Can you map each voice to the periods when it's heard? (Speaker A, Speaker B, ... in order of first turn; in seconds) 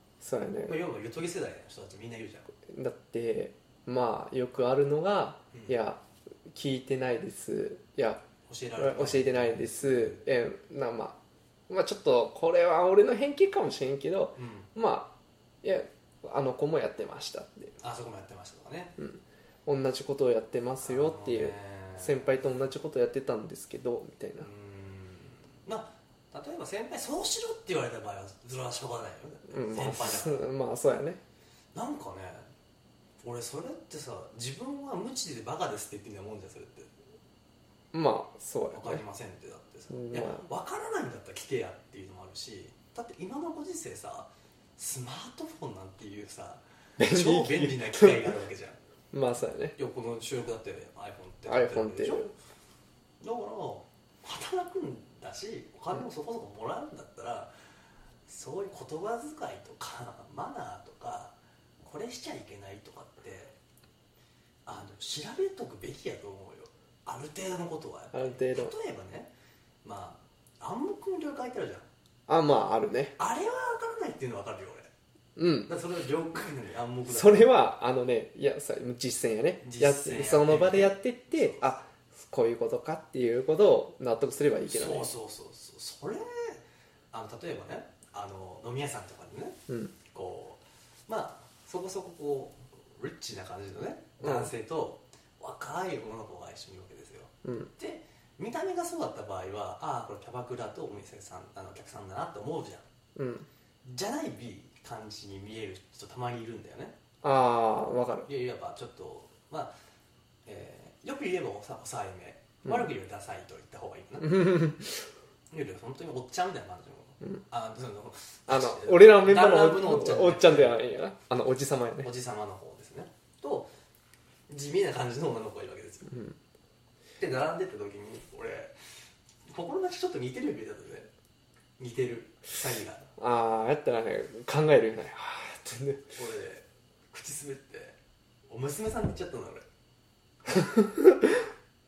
Speaker A: 0.2-0.8, 2.6-8.2, 8.8-11.2, 11.7-17.8, 19.0-24.5, 29.5-31.2, 37.9-39.0, 39.9-40.5, 47.0-48.3, 49.1-49.8, 51.5-52.3, 68.1-68.7, 72.3-73.2, 75.4-75.7, 77.1-85.1, 89.7-89.9, 94.2-94.5, 97.4-97.7, 103.2-103.5, 107.2-108.3, 112.7-112.9, 114.2-115.0, 118.5-122.1, 126.1-126.4, 133.2-136.1, 140.5-141.4
Speaker B: 0.6-2.5, 8.5-10.2, 14.4-14.7, 17.8-19.0, 20.8-22.4, 24.4-30.5, 31.8-32.5, 33.2-36.9, 38.7-48.8, 49.8-52.3, 53.2-57.5, 58.3-63.6, 64.7-69.3, 69.8-71.9, 73.2-74.9, 75.7-77.5, 79.6-81.6, 84.6-89.6, 90.1-102.8, 103.8-107.0, 108.3-109.8, 110.5-114.7, 115.5-120.8, 122.0-123.7, 124.5-126.2, 127.2-128.7, 129.5-131.1, 131.8-133.1, 136.1-139.7